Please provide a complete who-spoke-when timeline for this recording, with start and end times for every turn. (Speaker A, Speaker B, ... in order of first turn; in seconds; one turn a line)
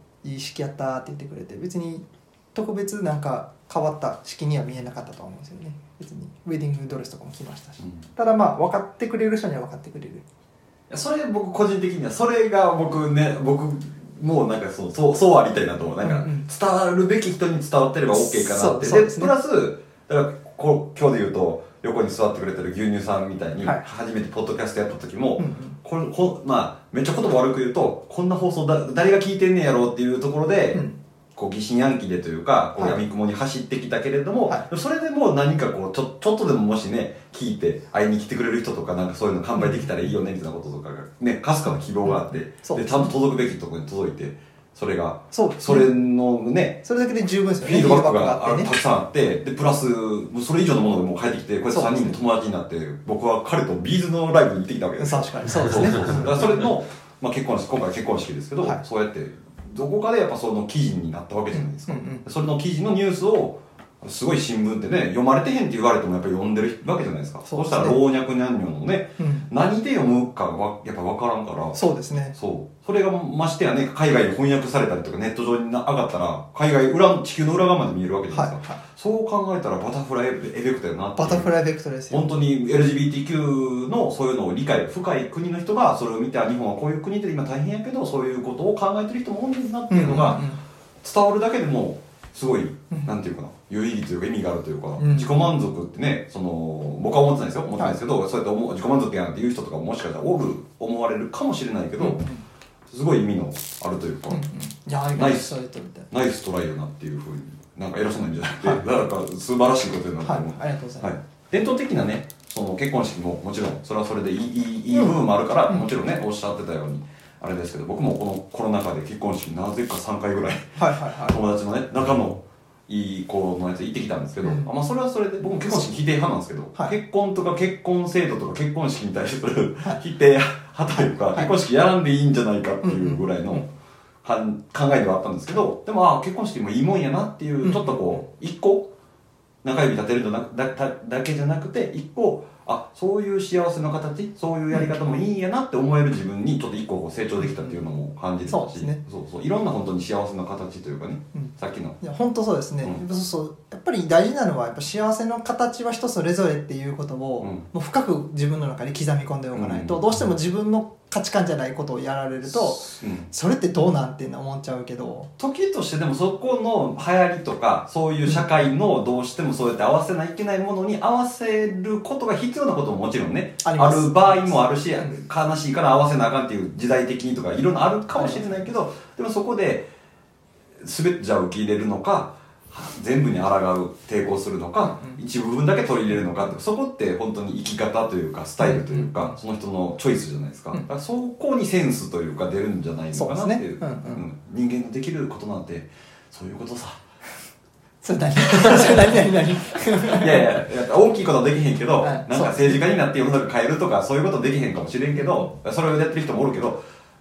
Speaker A: 0.2-10.2
Speaker B: 10.9-30.8
Speaker A: 16.0-16.5
Speaker A: 18.1-19.3
Speaker A: 25.4-25.8
Speaker B: 31.4-46.9
Speaker A: 32.8-33.0
Speaker A: 39.6-39.9
Speaker A: 42.0-43.1
Speaker A: 45.3-45.9
Speaker A: 46.9-48.7
Speaker B: 47.6-71.8
Speaker A: 51.7-52.1
Speaker A: 55.0-56.5
Speaker A: 61.5-62.2
Speaker A: 67.5-68.0
Speaker A: 69.2-69.5
Speaker A: 71.7-72.4
Speaker B: 72.3-81.5
Speaker A: 78.3-78.8
Speaker A: 81.2-82.3
Speaker B: 82.1-90.5
Speaker A: 89.9-90.6
Speaker B: 91.0-102.2
Speaker A: 95.0-95.5
Speaker A: 102.0-102.5
Speaker B: 102.9-104.4
Speaker A: 104.3-106.1
Speaker B: 105.2-105.6
Speaker B: 106.1-133.7
Speaker A: 110.2-111.2
Speaker A: 114.9-115.9
Speaker A: 120.8-121.4
Speaker A: 124.4-124.7
Speaker A: 132.8-133.6
Speaker B: 134.2-138.9
Speaker A: 137.6-138.2
Speaker B: 139.6-152.0
Speaker A: 148.5-149.0
Speaker A: 151.3-165.3
Speaker B: 157.4-157.7
Speaker B: 159.6-160.0
Speaker B: 162.4-163.3
Speaker B: 165.4-179.9
Speaker A: 173.6-175.2
Speaker A: 178.2-178.7
Speaker B: 180.8-197.0
Speaker A: 188.6-189.3
Speaker A: 193.1-194.2
Speaker A: 198.0-200.7
Speaker B: 200.0-206.8
Speaker A: 202.0-202.8